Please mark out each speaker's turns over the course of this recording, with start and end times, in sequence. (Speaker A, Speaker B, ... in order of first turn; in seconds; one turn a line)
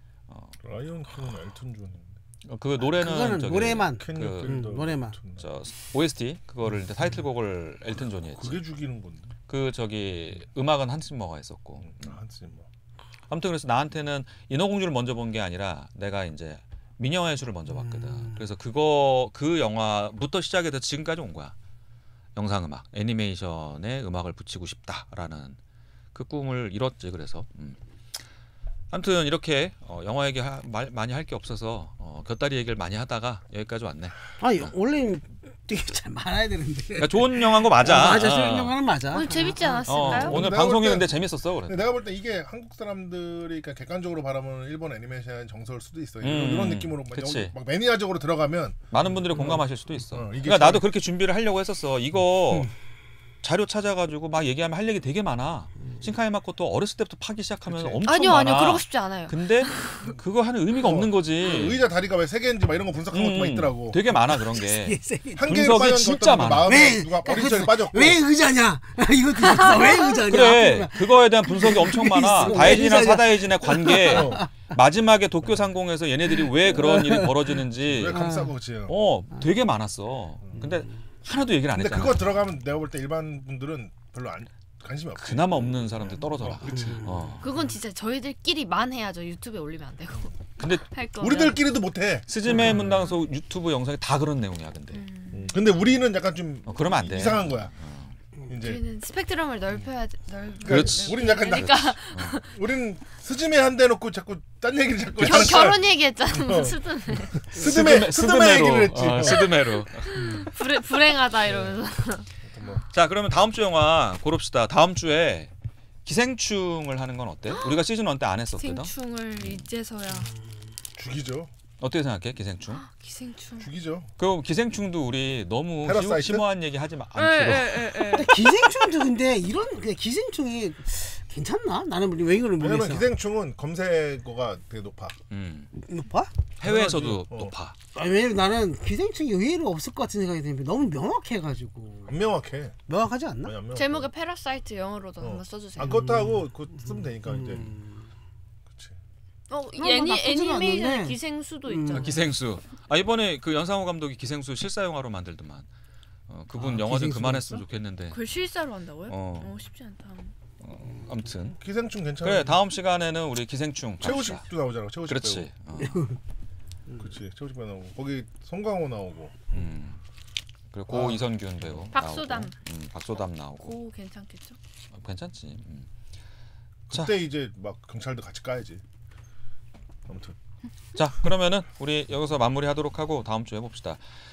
Speaker A: 0.3-0.6
Speaker B: 0.6-2.0
Speaker A: 2.4-4.6
Speaker C: 2.8-5.2
Speaker B: 4.0-5.4
Speaker A: 5.4-8.6
Speaker B: 8.3-9.3
Speaker A: 9.5-12.1
Speaker B: 11.8-12.7
Speaker A: 13.3-21.5
Speaker C: 17.7-18.4
Speaker A: 22.4-25.6
Speaker A: 26.1-27.8
Speaker A: 28.9-34.7
Speaker C: 34.4-40.5
Speaker A: 37.0-38.8
Speaker D: 39.1-40.5
Speaker A: 39.8-41.9
Speaker B: 40.1-41.1
Speaker B: 41.7-48.8
Speaker A: 46.2-47.5
Speaker A: 48.9-52.7
Speaker B: 49.3-49.6
Speaker B: 50.1-50.8
Speaker A: 53.4-61.8
Speaker B: 57.7-58.0
Speaker D: 58.0-60.0
Speaker B: 60.7-64.0
Speaker A: 63.1-66.9
Speaker C: 64.3-65.7
Speaker B: 65.4-68.2
Speaker C: 66.6-74.5
Speaker D: 69.4-70.2
Speaker A: 70.2-82.4
Speaker B: 72.5-72.8
Speaker B: 74.0-74.5
Speaker C: 76.7-77.4
Speaker B: 77.8-78.9
Speaker C: 78.0-78.5
Speaker B: 81.7-87.1
Speaker A: 85.2-87.5
Speaker C: 86.7-87.3
Speaker D: 87.4-90.3
Speaker A: 90.6-90.8
Speaker D: 90.9-91.6
Speaker B: 91.2-92.9
Speaker A: 92.3-95.0
Speaker D: 94.9-95.5
Speaker B: 95.3-97.7
Speaker A: 96.7-98.1
Speaker B: 98.5-98.8
Speaker D: 98.5-102.5
Speaker B: 100.6-109.5
Speaker A: 100.6-102.4
Speaker D: 105.2-107.5
Speaker A: 105.2-105.7
Speaker A: 107.5-110.4
Speaker D: 109.2-112.3
Speaker B: 111.5-111.7
Speaker B: 112.5-112.8
Speaker A: 112.9-115.5
Speaker A: 116.0-119.7
Speaker D: 117.5-117.8
Speaker D: 118.6-120.3
Speaker B: 121.0-121.5
Speaker A: 121.8-122.8
Speaker D: 122.7-123.7
Speaker B: 123.6-124.1
Speaker A: 124.2-128.0
Speaker B: 125.8-126.4
Speaker D: 127.2-128.4
Speaker C: 128.1-133.1
Speaker B: 132.6-135.1
Speaker A: 135.3-135.7
Speaker C: 135.7-136.3
Speaker A: 136.6-137.7
Speaker B: 136.6-137.5
Speaker C: 137.9-142.2
Speaker B: 142.1-142.8
Speaker C: 142.9-143.5
Speaker B: 143.4-144.1
Speaker D: 143.7-146.1
Speaker B: 145.2-147.8
Speaker C: 145.8-148.1
Speaker D: 149.5-152.2
Speaker C: 149.8-152.1
Speaker A: 151.9-155.7
Speaker A: 156.3-158.2
Speaker C: 156.5-157.6
Speaker D: 158.1-160.3
Speaker A: 159.1-159.5
Speaker A: 160.6-161.6
Speaker B: 161.6-162.6
Speaker A: 162.2-164.4
Speaker B: 164.0-165.5
Speaker A: 165.1-166.1
Speaker C: 165.8-166.2
Speaker B: 167.0-169.7
Speaker A: 169.5-170.0
Speaker A: 170.7-173.7
Speaker B: 170.9-171.8
Speaker D: 171.9-172.5
Speaker D: 173.6-174.6
Speaker A: 174.9-175.9
Speaker B: 176.9-178.8
Speaker B: 180.1-180.3
Speaker A: 180.9-184.0